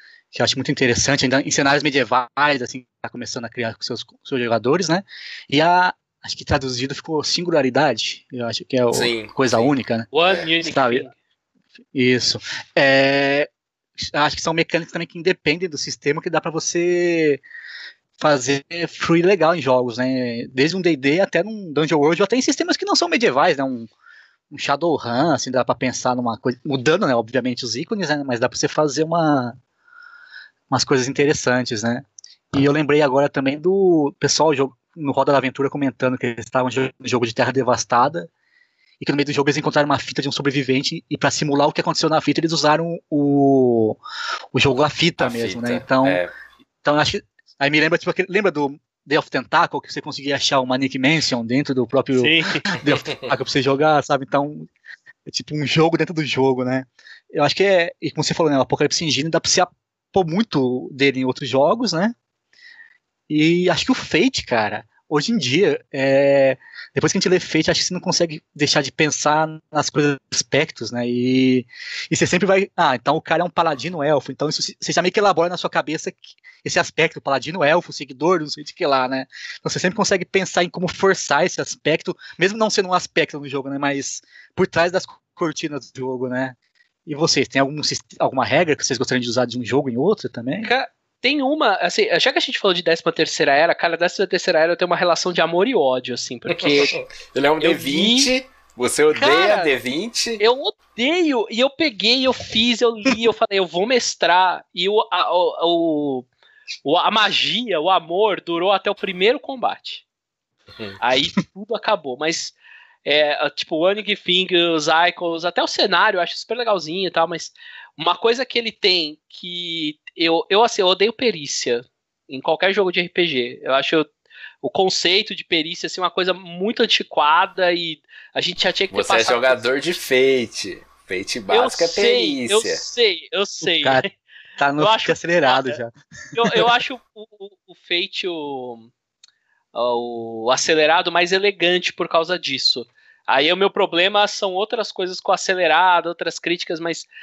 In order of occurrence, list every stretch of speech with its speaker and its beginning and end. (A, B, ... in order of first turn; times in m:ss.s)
0:00.3-0:10.1 A
0:08.9-0:09.7 B
0:10.1-0:11.1 C
0:10.6-0:11.0 A
0:11.9-0:17.4 A
0:18.2-0:23.9 A
0:24.5-0:29.6 A
0:30.7-0:38.3 A
0:39.0-0:44.0 A
0:44.5-0:46.2 A
0:45.2-0:46.3 B
0:46.8-0:54.7 A
0:52.2-0:52.8 C
0:55.2-1:02.1 A
1:03.3-1:30.7 A
1:30.6-1:37.0 C
1:36.5-1:40.4 B
1:37.6-1:38.3 C
1:39.1-1:39.7 C
1:40.4-1:46.3 C
1:46.8-1:50.0 C
1:51.0-2:04.1 C
2:04.6-2:09.6 C
2:08.9-2:12.8 B
2:11.5-2:14.1 C
2:13.6-2:14.0 A
2:14.6-2:16.7 A
2:14.8-2:15.8 C
2:16.3-2:18.9 C
2:19.7-2:27.1 C